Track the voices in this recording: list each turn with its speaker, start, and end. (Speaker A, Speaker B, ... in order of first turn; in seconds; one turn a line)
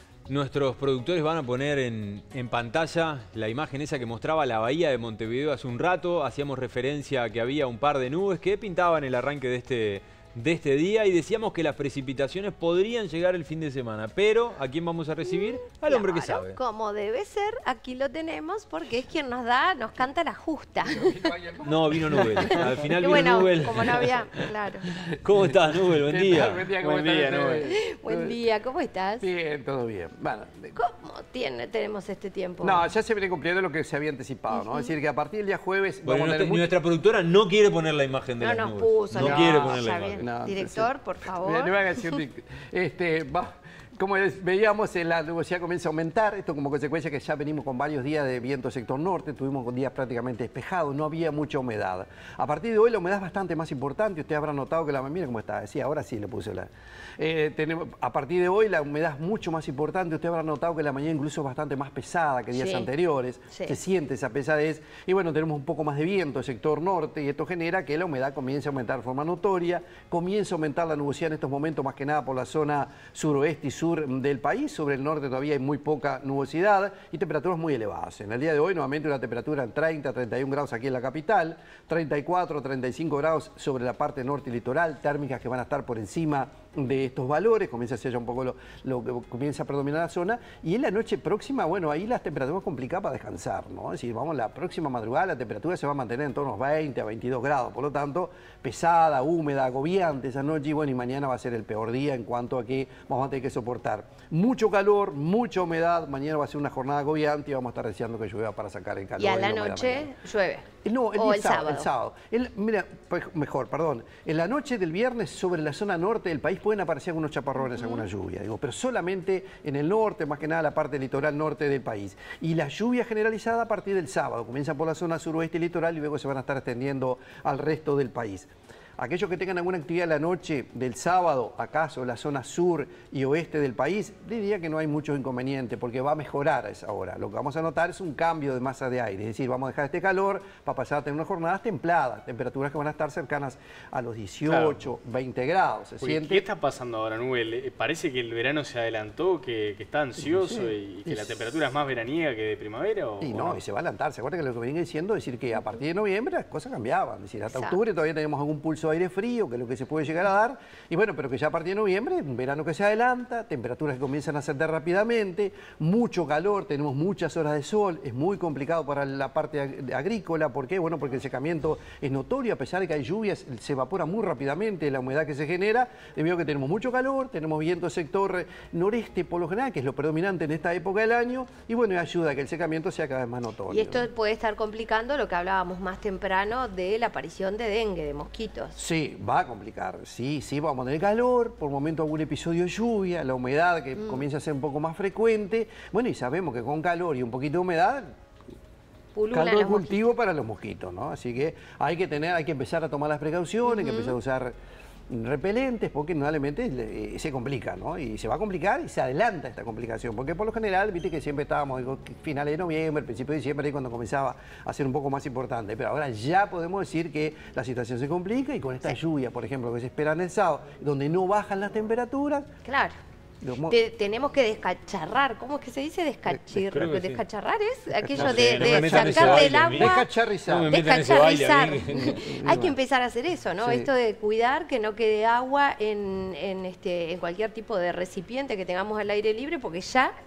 Speaker A: 0.3-16.6
Speaker B: 15.8-21.3
Speaker C: 20.8-23.6
Speaker A: 21.6-27.6
Speaker B: 22.2-24.9
Speaker C: 25.4-28.4
Speaker D: 26.8-27.3
Speaker B: 27.7-29.3
Speaker C: 29.2-30.8
Speaker B: 30.8-32.8
Speaker C: 32.6-36.7
Speaker B: 34.5-34.9
Speaker A: 36.0-40.2
Speaker B: 38.4-42.2
Speaker C: 39.1-110.1
Speaker B: 62.5-62.9
Speaker B: 109.2-111.9
Speaker C: 110.8-146.4
Speaker B: 117.6-118.1
Speaker D: 144.4-144.8
Speaker D: 146.0-153.6
Speaker C: 150.2-151.5
Speaker C: 153.2-184.1
Speaker B: 157.5-157.8
Speaker B: 183.7-188.8
Speaker C: 188.8-198.1
Speaker B: 194.0-194.2
Speaker B: 199.1-200.0
Speaker C: 199.3-204.5
Speaker B: 203.6-204.2
Speaker C: 205.1-222.5
Speaker B: 222.6-222.9
Speaker C: 223.4-223.8
Speaker B: 223.7-230.1
Speaker C: 226.3-226.7
Speaker A: 226.7-227.2
Speaker C: 227.9-230.7
Speaker A: 228.2-232.4
Speaker B: 230.7-240.1
Speaker C: 232.0-232.8
Speaker C: 233.6-233.9